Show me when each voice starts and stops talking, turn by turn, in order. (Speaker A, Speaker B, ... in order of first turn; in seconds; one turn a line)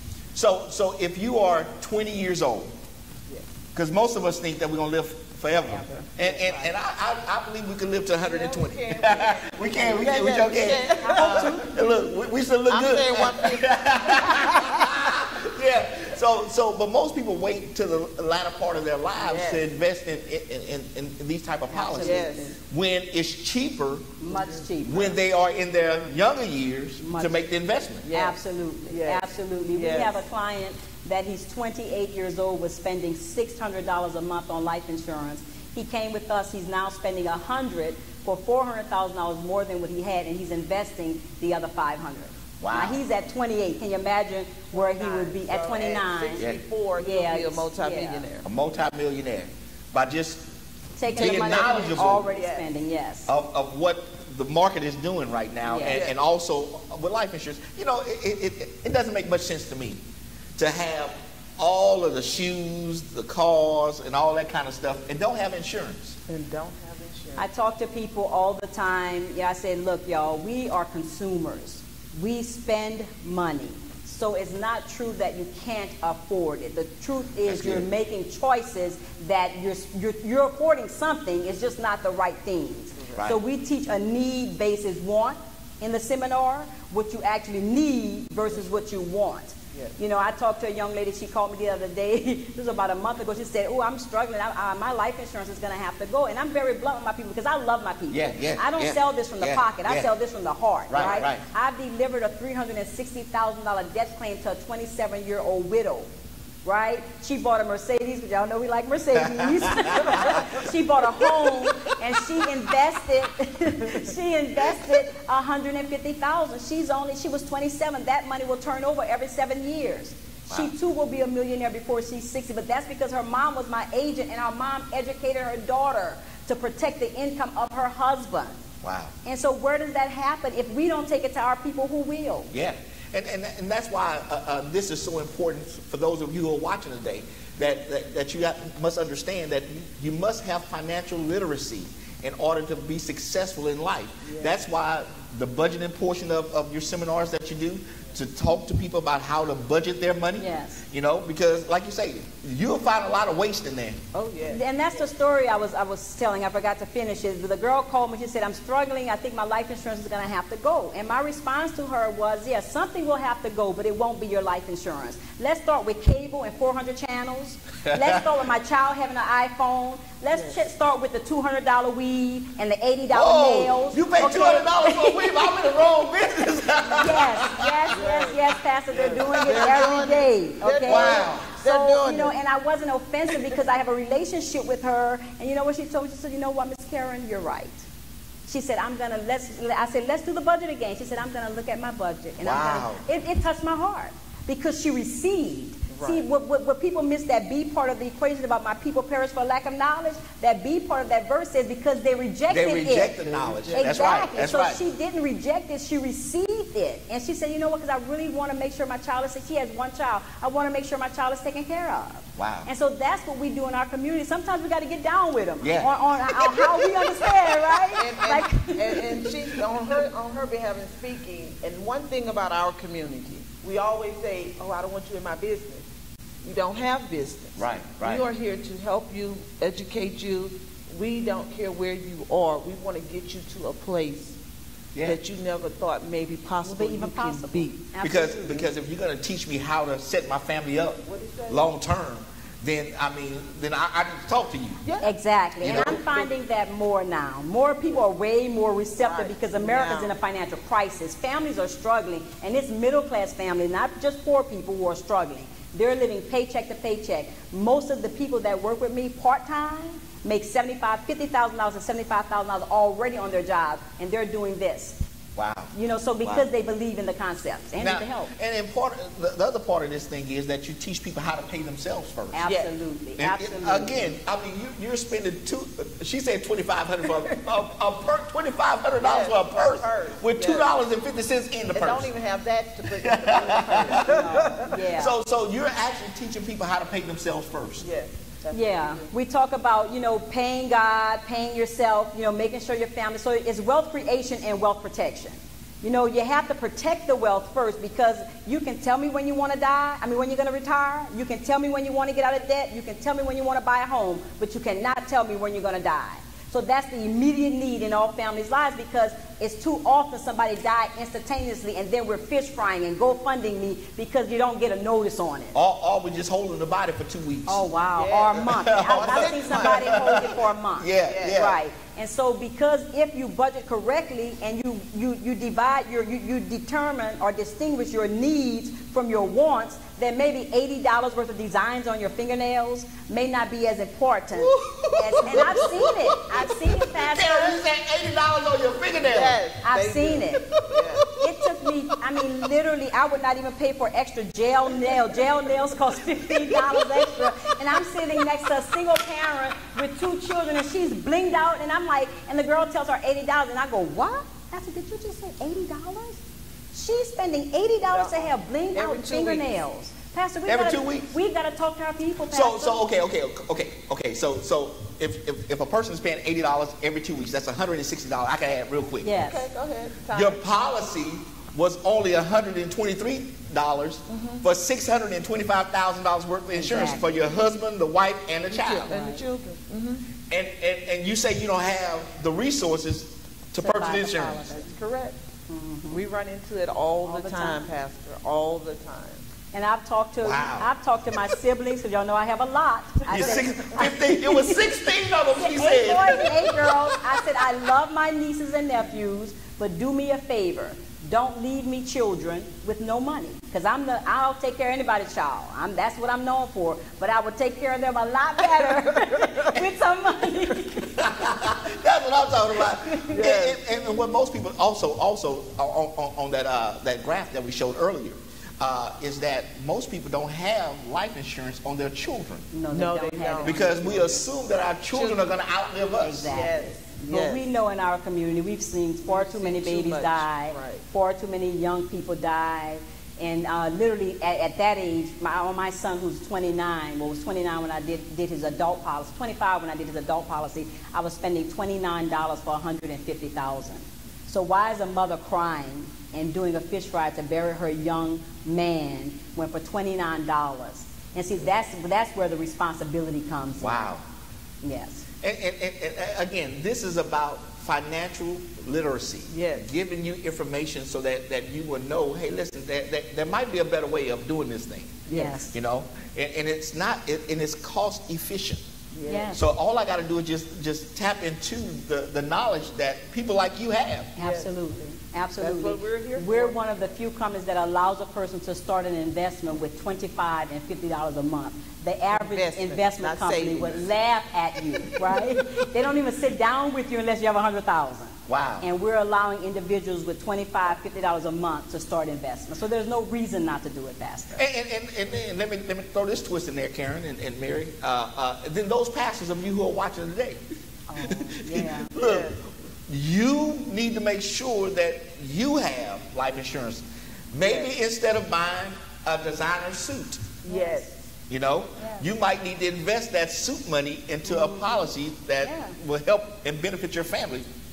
Speaker A: 0.3-2.7
Speaker A: 3.8-24.2
Speaker B: 5.7-6.6
Speaker C: 8.2-11.7
Speaker B: 11.0-11.9
Speaker C: 12.7-15.2
Speaker C: 19.2-19.6
Speaker B: 21.7-22.6
Speaker C: 22.0-22.5
Speaker B: 24.2-25.2
Speaker C: 24.3-24.6
Speaker A: 24.8-28.1
Speaker B: 27.0-27.4
Speaker C: 28.1-28.4
Speaker B: 28.1-46.4
Speaker C: 28.9-30.2
Speaker A: 42.6-43.0
Speaker C: 44.7-48.5
Speaker B: 47.0-48.2
Speaker A: 48.4-50.4
Speaker B: 51.0-53.3
Speaker A: 51.1-52.3
Speaker C: 51.2-52.6
Speaker A: 53.3-60.0
Speaker B: 55.6-56.0
Speaker C: 55.9-56.1
Speaker A: 60.6-66.2
Speaker C: 66.3-67.5
Speaker B: 67.4-106.1
Speaker A: 77.5-77.9
Speaker C: 83.0-83.3
Speaker A: 98.1-100.1
Speaker A: 100.9-101.4
Speaker B: 106.6-128.6
Speaker A: 109.2-110.5
Speaker A: 120.5-120.7
Speaker A: 128.8-129.1
Speaker B: 129.2-132.5
Speaker A: 132.5-154.0
Speaker C: 144.2-144.6
Speaker B: 150.4-150.8
Speaker C: 154.1-155.0
Speaker B: 154.4-175.8
Speaker A: 167.8-168.2
Speaker C: 170.3-170.6
Speaker A: 173.1-177.9
Speaker B: 176.8-187.8
Speaker C: 177.9-182.4
Speaker A: 179.2-179.8
Speaker A: 180.9-181.5
Speaker B: 188.5-203.2
Speaker A: 192.4-193.0
Speaker C: 195.9-196.2
Speaker A: 202.5-204.8
Speaker C: 203.1-204.0
Speaker B: 203.7-219.3
Speaker A: 212.4-212.7
Speaker A: 215.6-217.7
Speaker C: 217.9-225.9
Speaker C: 226.4-234.4
Speaker A: 227.6-228.3
Speaker A: 234.9-235.2
Speaker C: 235.0-237.8
Speaker B: 236.6-238.6
Speaker A: 238.0-244.8
Speaker C: 241.0-241.7
Speaker B: 245.0-265.0
Speaker A: 245.6-246.0
Speaker C: 245.7-246.3
Speaker C: 249.0-250.1
Speaker A: 265.4-265.7
Speaker B: 265.7-268.3
Speaker A: 267.8-272.4
Speaker B: 272.3-274.1
Speaker A: 273.2-282.1
Speaker C: 279.0-280.7
Speaker C: 281.7-284.7
Speaker A: 282.9-287.9
Speaker B: 283.6-285.1
Speaker C: 287.8-289.1
Speaker B: 288.5-315.6
Speaker A: 315.5-317.6
Speaker B: 317.5-337.6
Speaker C: 318.0-320.3
Speaker A: 318.4-321.6
Speaker C: 321.1-321.5
Speaker A: 334.5-339.4
Speaker C: 338.9-341.1
Speaker B: 339.6-340.4
Speaker B: 341.2-356.2
Speaker A: 346.4-347.0
Speaker B: 356.7-362.8
Speaker C: 357.9-359.5
Speaker A: 360.4-361.1
Speaker A: 362.3-369.1
Speaker B: 369.0-369.4
Speaker C: 369.2-370.4
Speaker A: 370.1-378.9
Speaker C: 374.1-374.4
Speaker B: 376.5-377.1
Speaker C: 378.5-380.1
Speaker B: 378.9-379.2
Speaker A: 380.3-384.5
Speaker B: 383.6-384.7
Speaker C: 384.5-385.2
Speaker B: 385.5-386.0
Speaker C: 385.9-389.2
Speaker B: 387.1-387.7
Speaker B: 389.5-394.7
Speaker A: 390.2-390.7
Speaker A: 393.1-397.2
Speaker B: 395.3-411.4
Speaker C: 409.0-409.3
Speaker A: 411.0-422.5
Speaker B: 412.9-413.2
Speaker C: 413.1-413.6
Speaker B: 422.5-423.8
Speaker C: 422.7-424.3
Speaker A: 423.4-426.3
Speaker C: 424.9-425.3
Speaker B: 426.0-453.9
Speaker C: 426.3-427.5
Speaker C: 429.1-430.8
Speaker A: 453.6-454.0
Speaker B: 454.6-455.1
Speaker A: 455.2-468.6
Speaker C: 459.3-459.7
Speaker C: 465.1-465.4
Speaker B: 465.1-465.6
Speaker C: 468.9-469.3
Speaker B: 469.1-469.4
Speaker A: 469.3-474.1
Speaker C: 474.2-474.5
Speaker B: 474.2-494.4
Speaker C: 475.4-476.6
Speaker C: 482.1-483.9
Speaker A: 488.3-488.6
Speaker A: 494.4-500.4
Speaker B: 500.9-502.0
Speaker A: 501.0-502.4
Speaker C: 502.0-502.4
Speaker A: 502.9-510.4
Speaker C: 507.4-507.7
Speaker C: 510.4-511.0
Speaker B: 510.4-510.9
Speaker A: 511.3-517.5
Speaker B: 511.8-512.1
Speaker B: 514.3-514.8
Speaker B: 515.4-515.8